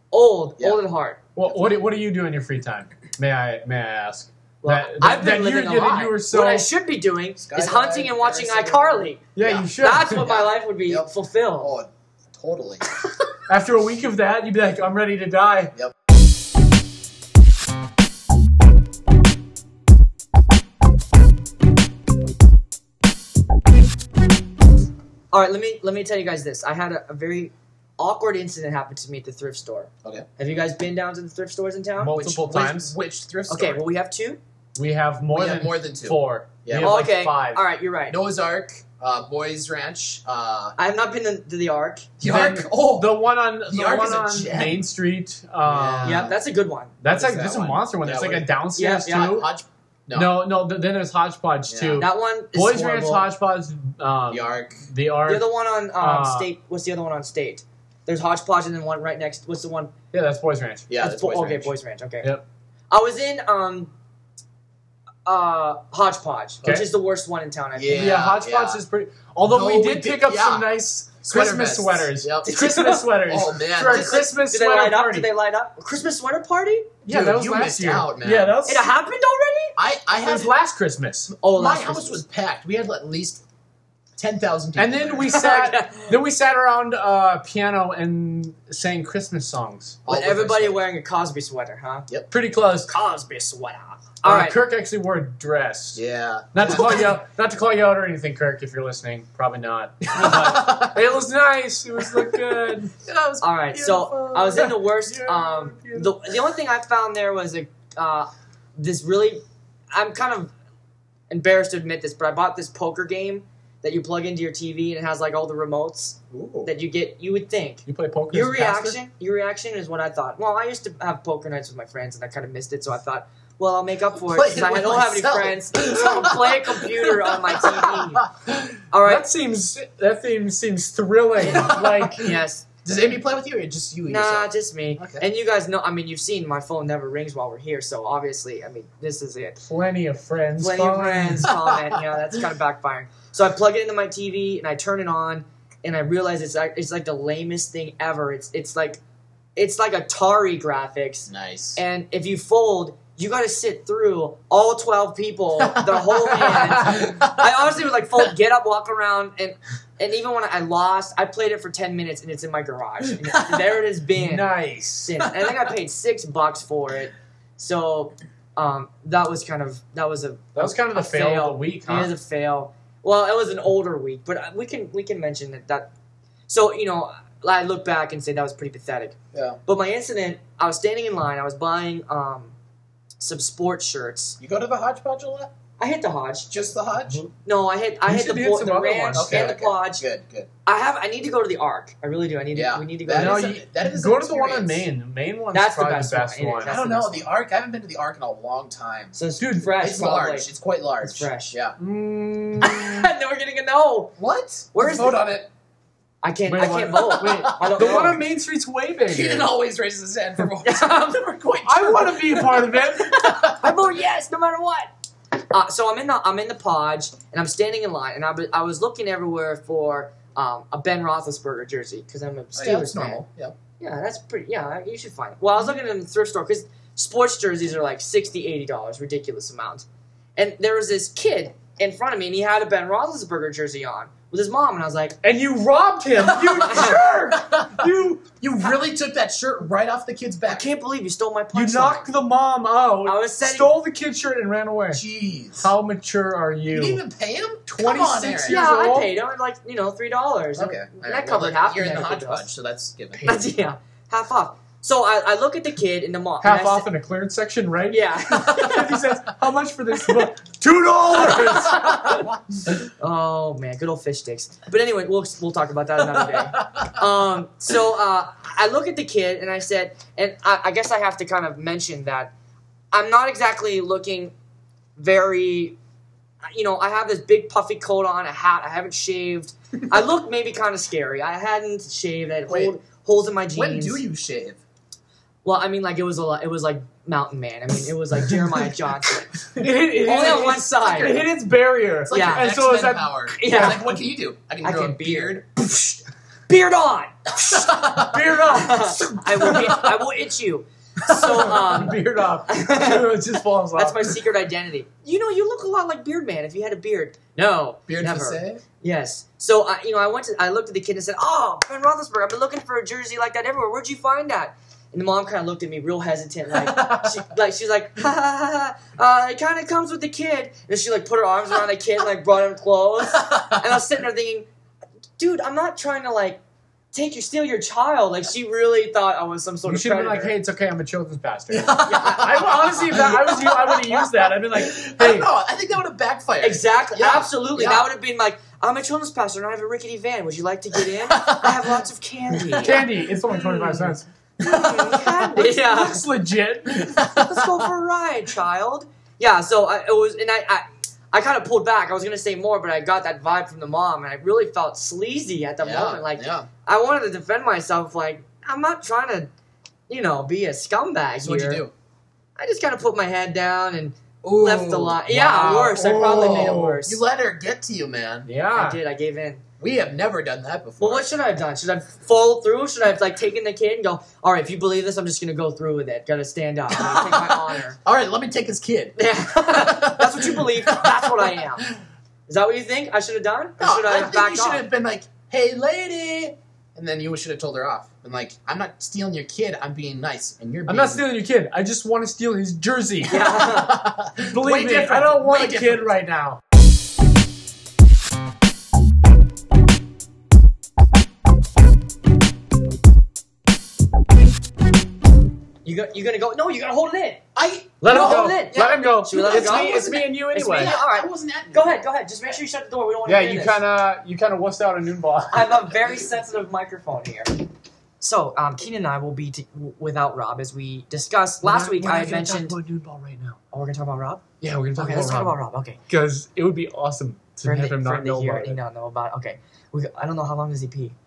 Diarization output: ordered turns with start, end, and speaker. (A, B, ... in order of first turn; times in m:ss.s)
0:00.1-0:01.2 A
0:01.4-0:06.7 B
0:04.6-0:09.2 A
0:07.4-0:12.8 C
0:09.3-0:10.3 B
0:09.8-0:11.7 A
0:13.5-0:15.7 B
0:25.3-0:32.2 A
0:32.0-0:32.9 B
0:32.1-0:33.8 C
0:33.5-0:34.4 A
0:34.8-0:37.6 B
0:35.3-0:37.1 C
0:36.8-0:38.2 A
0:38.1-0:40.7 C
0:40.8-0:42.1 A
0:42.2-0:44.8 C
0:42.2-0:46.3 B
0:45.6-0:46.4 C
0:46.0-0:46.9 A
0:47.0-0:49.5 B
0:47.1-0:48.5 C
0:48.8-0:49.4 A
0:49.1-0:50.4 C
0:50.1-0:56.5 B
0:51.7-0:52.0 C
0:52.0-0:53.2 A
0:54.3-0:54.8 C
0:55.2-0:59.9 A
1:00.1-1:00.9 B
1:00.9-1:01.7 C
1:01.0-1:02.3 A
1:02.9-1:03.9 A
1:05.2-1:08.2 A
1:06.6-1:06.9 B
1:07.7-1:08.8 C
1:07.9-1:15.3 B
1:09.4-1:10.7 C
1:11.2-1:12.7 C
1:12.4-1:13.1 A
1:13.2-1:14.2 C
1:13.8-1:16.9 A
1:17.0-1:18.9 B
1:17.1-1:18.6 C
1:18.6-1:19.8 A
1:19.8-1:20.5 C
1:20.1-1:21.3 B
1:21.3-1:23.4 C
1:21.4-1:22.2 A
1:24.2-1:25.4 C
1:24.8-1:30.0 B
1:25.3-1:26.2 A
1:30.0-1:30.8 C
1:30.1-1:32.1 A
1:32.3-1:32.9 B
1:32.9-1:34.6 A
1:34.2-1:36.0 B
1:35.9-1:37.2 C
1:36.5-1:46.3 B
1:40.2-1:41.0 C
1:40.2-1:40.5 A
1:42.2-1:42.6 C
1:43.4-1:50.5 A
1:51.3-2:08.2 A
1:56.3-1:56.7 C
1:57.8-1:59.0 B
2:04.2-2:08.6 C
2:08.9-2:09.2 A
2:09.0-2:12.3 B
2:11.4-2:12.3 C
2:11.5-2:12.6 A
2:12.8-2:15.2 C
2:14.1-2:19.6 A
2:19.6-2:21.5 B
2:20.6-2:29.0 A
2:29.6-2:55.9 A
2:31.3-2:31.8 C
2:35.6-2:37.5 C
2:43.2-2:43.6 C
2:44.1-2:45.2 B
2:50.6-2:52.1 B
2:56.5-3:02.5 A
2:59.3-2:59.6 C
3:03.2-3:04.4 A
3:04.4-3:05.5 C
3:05.8-3:06.5 A
3:06.5-3:07.2 C
3:07.4-3:10.0 A
3:08.0-3:09.5 B
3:09.1-3:10.5 C
3:10.6-3:13.5 A
3:12.5-3:14.8 C
3:13.1-3:16.7 B
3:15.5-3:17.3 A
3:16.6-3:19.2 C
3:19.1-3:20.5 A
3:19.4-3:19.7 B
3:19.8-3:21.8 C
3:21.0-3:21.6 A
3:21.8-3:23.1 B
3:22.6-3:24.2 A
3:24.2-3:25.5 C
3:24.7-3:25.2 A
3:26.2-3:28.2 A
3:26.5-3:29.5 B
3:26.9-3:28.2 C
3:29.1-3:33.8 C
3:30.6-3:31.2 A
3:31.6-3:33.4 B
3:33.5-3:34.9 A
3:35.5-3:43.2 A
3:42.5-3:43.6 C
3:43.8-3:55.2 A
3:55.2-3:58.4 B
3:56.2-4:00.7 C
3:56.6-3:57.0 A
4:00.5-4:02.1 A
4:01.5-4:05.0 B
4:03.0-4:03.7 A
4:04.9-4:05.7 C
4:05.6-4:07.0 B
4:06.7-4:08.6 C
4:07.7-4:09.1 B
4:08.5-4:12.5 A
4:10.6-4:13.4 C
4:13.2-4:16.9 A
4:16.4-4:22.3 B
4:17.9-4:19.0 A
4:21.2-4:22.7 C
4:23.0-4:32.3 A
4:26.0-4:27.0 C
4:32.9-4:34.3 A
4:35.0-4:35.8 A
4:36.5-4:44.0 A
4:42.5-4:42.8 C
4:43.5-4:44.6 C
4:45.4-4:49.4 A
4:49.5-4:53.8 B
4:50.0-4:51.3 A
4:52.1-4:55.5 C
4:52.1-4:52.5 A
4:53.4-4:53.9 A
4:54.6-4:57.8 A
4:57.4-4:58.3 C
4:57.8-5:00.0 B
4:58.4-5:03.2 A
5:01.0-5:04.2 B
5:03.7-5:24.4 A
5:07.9-5:08.6 C
5:16.6-5:17.2 C
5:23.1-5:23.6 C
5:25.2-5:26.4 A
5:26.9-5:30.3 A
5:29.6-5:35.3 B
5:31.5-5:37.9 C
5:31.8-5:32.8 A
5:36.4-5:42.8 A
5:40.8-5:43.9 C
5:42.6-5:47.2 B
5:44.4-5:46.0 A
5:44.5-5:44.8 C
5:46.9-5:47.4 C
5:47.1-5:59.3 A
5:55.6-5:56.5 C
5:59.9-6:01.6 A
6:01.2-6:01.7 C
6:02.4-6:07.0 A
6:04.2-6:08.3 C
6:05.1-6:06.8 B
6:08.2-6:08.8 B
6:08.5-6:09.4 A
6:09.6-6:11.1 C
6:10.8-6:17.8 A
6:16.7-6:21.6 C
6:19.0-6:21.7 A
6:22.3-6:24.6 A
6:23.6-6:31.0 C
6:30.7-6:33.4 B
6:33.0-6:33.8 A
6:33.2-6:35.9 C
6:34.2-6:36.4 B
6:45.6-6:47.2 A
6:47.3-6:48.4 C
6:47.8-6:50.8 B
6:47.8-6:53.6 A
6:49.1-6:51.8 C
6:53.0-6:55.7 B
6:55.3-6:57.4 A
6:58.0-7:02.6 A
7:01.4-7:03.4 B
7:03.5-7:05.8 A
7:04.4-7:08.6 B
7:07.4-7:11.0 A